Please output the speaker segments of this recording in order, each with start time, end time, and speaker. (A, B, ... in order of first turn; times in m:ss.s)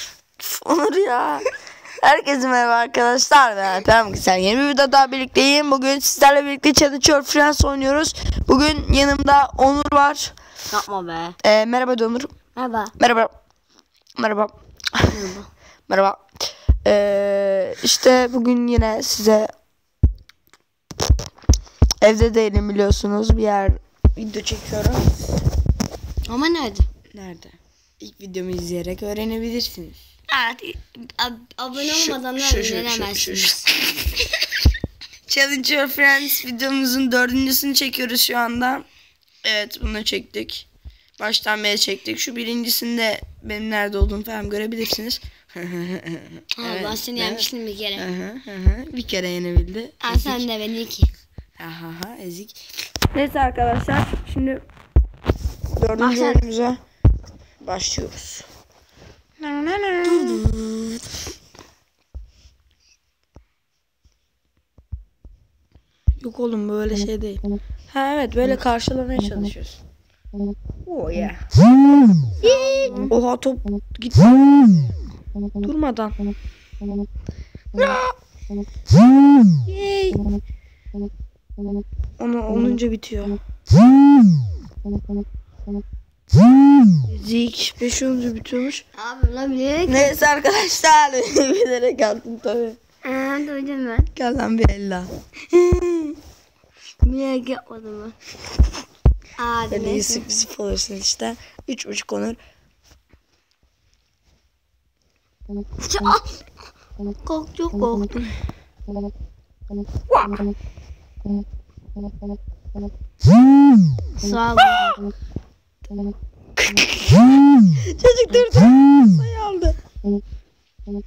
0:00.4-0:01.4 A
0:02.0-0:10.3 A
0:10.7-0:11.4 B
0:11.4-0:12.3 A
0:12.5-0:12.9 B
0:13.0-0:13.3 A
0:14.2-0:15.2 A
0:15.1-0:15.5 B
0:15.9-0:16.2 A
0:16.8-0:19.5 A
0:22.0-0:25.0 A
0:26.2-0:26.9 B
0:27.1-0:30.0 A
0:30.3-0:33.7 B
0:31.8-0:34.0 A
0:35.3-0:38.8 A
0:39.4-0:40.6 A
0:41.2-0:50.5 A
0:46.6-0:48.0 B
0:50.0-0:51.1 B
0:51.6-0:52.6 A
0:53.1-0:54.6 A
0:55.8-0:56.8 A
0:56.0-0:56.4 B
0:57.6-0:58.4 A
0:59.4-1:00.4 A
1:00.0-1:01.0 B
1:06.2-1:09.8 A
1:10.9-1:11.4 A
1:12.4-1:13.1 B
1:12.4-1:14.9 A
1:15.6-1:16.2 A
1:17.8-1:18.1 A
1:19.7-1:20.2 A
1:22.2-1:23.4 A
1:27.1-1:28.8 A
1:29.0-1:30.2 B
1:29.9-1:32.8 A
1:33.0-1:34.1 B
1:34.2-1:36.2 A
1:37.0-1:38.2 B
1:39.4-1:40.3 B
1:39.7-1:42.4 A
1:45.8-1:46.2 B
1:47.2-1:48.1 B
1:50.1-1:50.3 A
1:54.2-1:55.0 B
1:56.6-1:57.2 A
1:57.8-1:59.8 A